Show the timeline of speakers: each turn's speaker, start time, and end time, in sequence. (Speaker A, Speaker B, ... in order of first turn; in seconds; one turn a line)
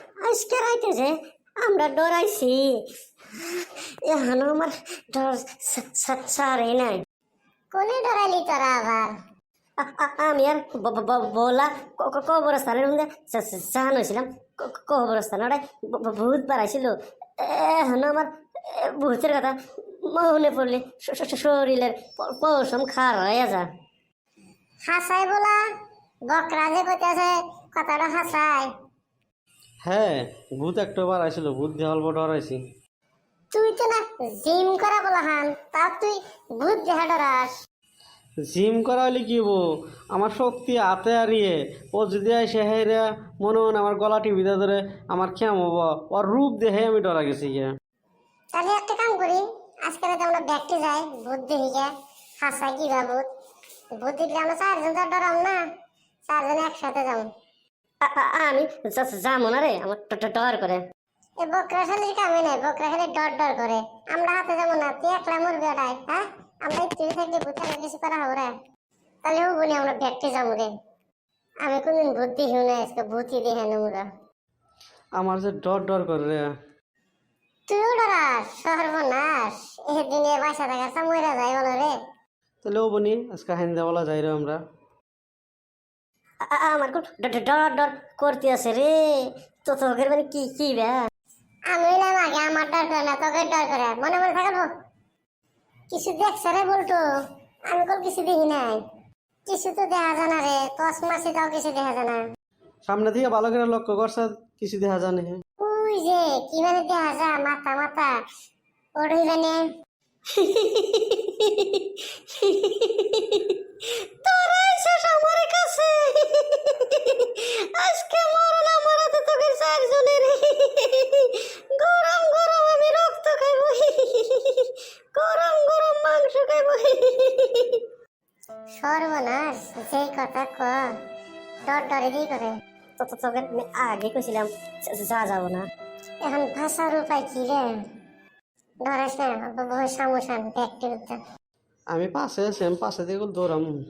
Speaker A: 0.2-2.8
Speaker A: 3.4-7.0
Speaker B: 7.7-9.1
Speaker A: 9.8-23.7
Speaker B: 24.9-25.6
Speaker B: 26.3-28.7
Speaker C: 29.8-32.6
Speaker B: 33.5-37.5
Speaker C: 38.5-39.6
Speaker C: 40.1-47.7
Speaker B: 48.5-51.9
Speaker B: 52.4-53.3
Speaker B: 54.0-55.6
Speaker B: 56.3-57.2
Speaker A: 58.0-60.8
Speaker B: 61.4-68.5
Speaker B: 69.2-70.7
Speaker B: 71.6-74.0
Speaker C: 75.2-76.4
Speaker B: 77.7-81.9
Speaker C: 82.6-84.6
Speaker A: 86.4-91.0
Speaker B: 91.7-94.7
Speaker B: 95.9-97.0
Speaker B: 97.7-98.8
Speaker B: 99.5-102.2
Speaker C: 102.8-105.4
Speaker B: 105.6-108.1
Speaker B: 109.0-109.6
Speaker A: 110.3-127.8
Speaker B: 128.8-130.8
Speaker B: 131.7-132.5
Speaker A: 133.0-135.7
Speaker B: 136.2-137.7
Speaker B: 138.8-141.2
Speaker C: 141.9-143.7